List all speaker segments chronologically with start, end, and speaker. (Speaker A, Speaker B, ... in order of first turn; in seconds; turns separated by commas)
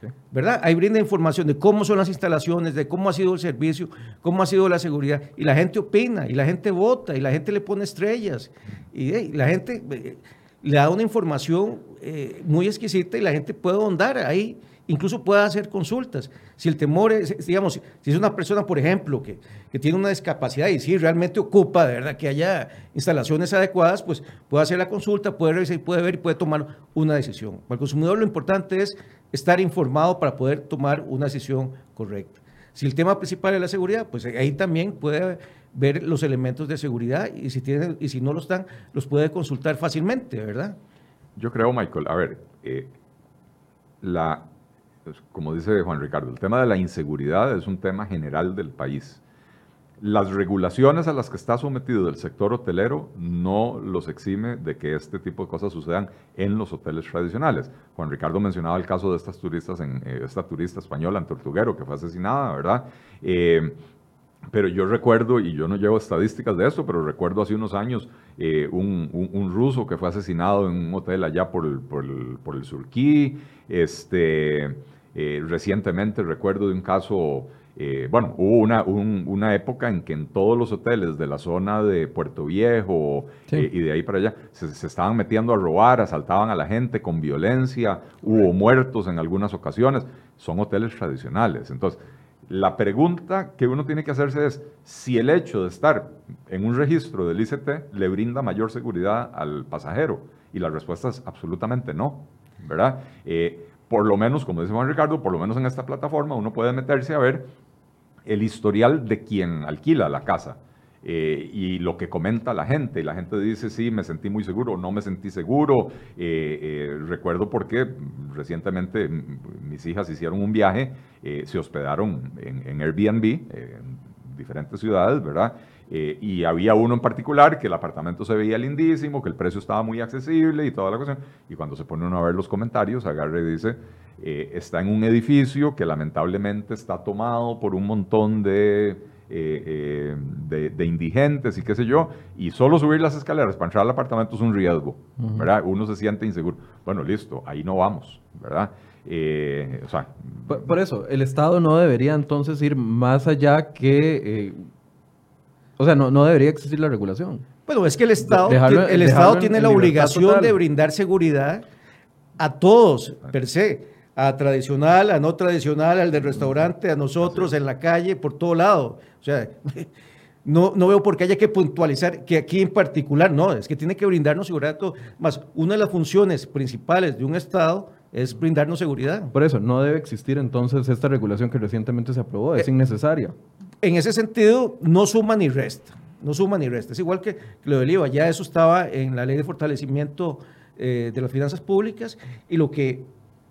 Speaker A: 0.3-40.8, Speaker B: 41.4-42.9, Speaker B: 44.0-44.5, Speaker B: 45.1-49.2, Speaker B: 50.0-63.8, Speaker B: 64.5-107.5, Speaker B: 108.2-150.6, Speaker C: 145.2-145.4, Speaker C: 150.5-154.6, Speaker C: 155.8-157.4, Speaker A: 157.7-161.6, Speaker C: 158.2-160.6, Speaker A: 162.4-169.9, Speaker A: 170.4-179.3, Speaker C: 179.3-183.3, Speaker A: 183.8-193.1